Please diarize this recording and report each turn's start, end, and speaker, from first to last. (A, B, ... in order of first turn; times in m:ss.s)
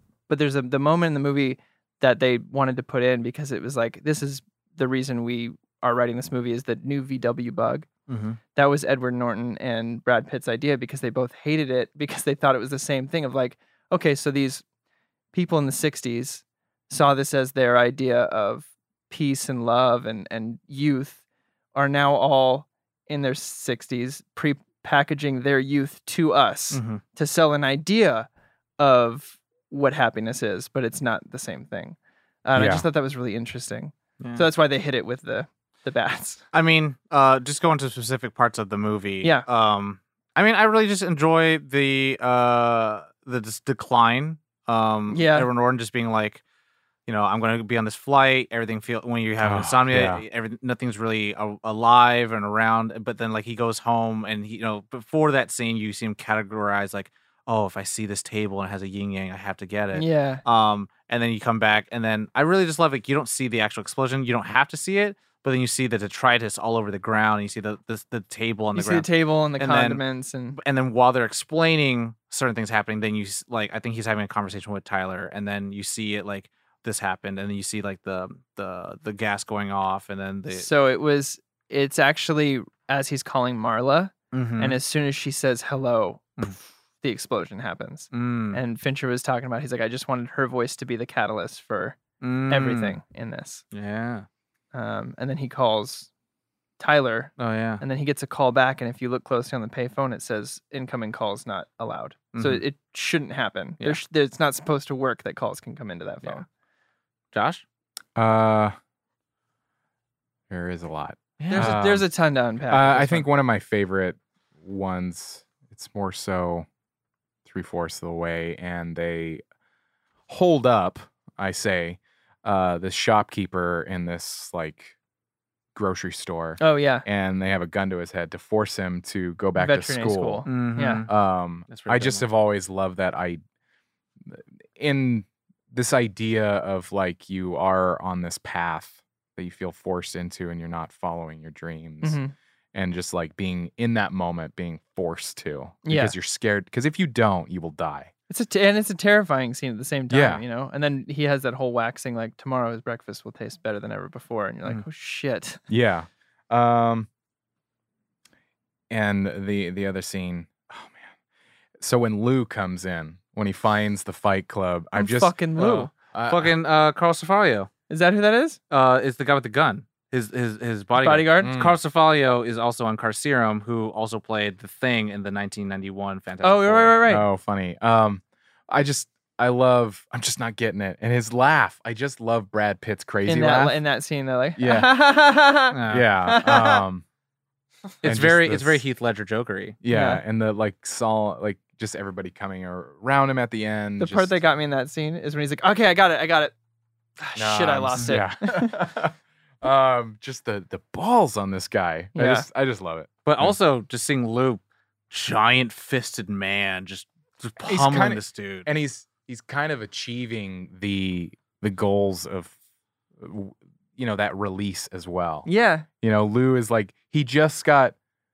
0:00.3-0:07.9 A
0:08.1-0:08.4 B
0:08.5-0:14.6 A
0:15.3-0:21.2 A
0:21.7-0:28.3 A
0:26.7-0:27.0 B
0:28.8-0:36.4 A
0:32.5-0:32.8 C
0:34.2-0:34.4 B
0:36.5-0:46.4 B
0:45.1-0:45.5 A
0:47.0-1:10.0 B
0:49.4-0:50.2 C
0:59.9-1:00.4 A
1:08.7-1:10.6 A
1:10.5-1:20.7 B
1:20.5-1:33.6 A
1:24.3-1:24.8 B
1:28.1-1:28.6 B
1:32.2-1:33.0 B
1:33.7-1:34.2 B
1:34.7-1:36.1 A
1:36.8-1:46.4 A
1:37.4-1:37.8 B
1:42.3-1:42.6 B
1:47.3-1:47.6 B
1:48.2-1:48.7 C
1:50.5-1:52.1 C
1:51.4-1:51.8 B
1:51.5-1:53.3 A
1:52.7-1:56.6 C
1:57.4-1:59.4 C
2:00.3-2:04.9 C
2:05.7-2:13.4 C
2:06.6-2:07.0 A
2:09.6-2:11.0 A
2:10.4-2:11.1 B
2:11.7-2:12.2 B
2:14.2-2:22.2 C
2:22.0-2:22.3 A
2:22.7-2:28.1 C
2:25.8-2:26.1 A
2:28.3-2:35.6 A
2:30.1-2:30.4 C
2:35.7-2:37.1 C
2:38.9-2:41.1 C
2:41.8-2:46.5 C
2:45.0-2:45.9 A
2:46.3-2:47.7 B
2:47.9-2:48.6 A
2:48.7-2:57.0 B
2:51.0-2:51.5 A
2:51.4-2:51.8 C
2:56.4-2:57.3 A
2:57.0-3:03.8 C
3:03.2-3:06.8 A
3:04.6-3:04.9 C
3:05.7-3:06.1 B
3:05.9-3:07.0 C
3:08.0-3:09.8 B
3:08.0-3:08.8 C
3:09.8-3:14.4 C
3:09.9-3:10.2 A
3:14.0-3:16.5 A
3:17.2-3:18.8 A
3:17.4-3:23.6 C
3:22.1-3:22.4 A
3:23.2-3:28.7 B
3:27.6-3:32.5 C
3:33.2-3:35.5 C
3:35.4-3:35.9 A
3:36.0-3:38.0 C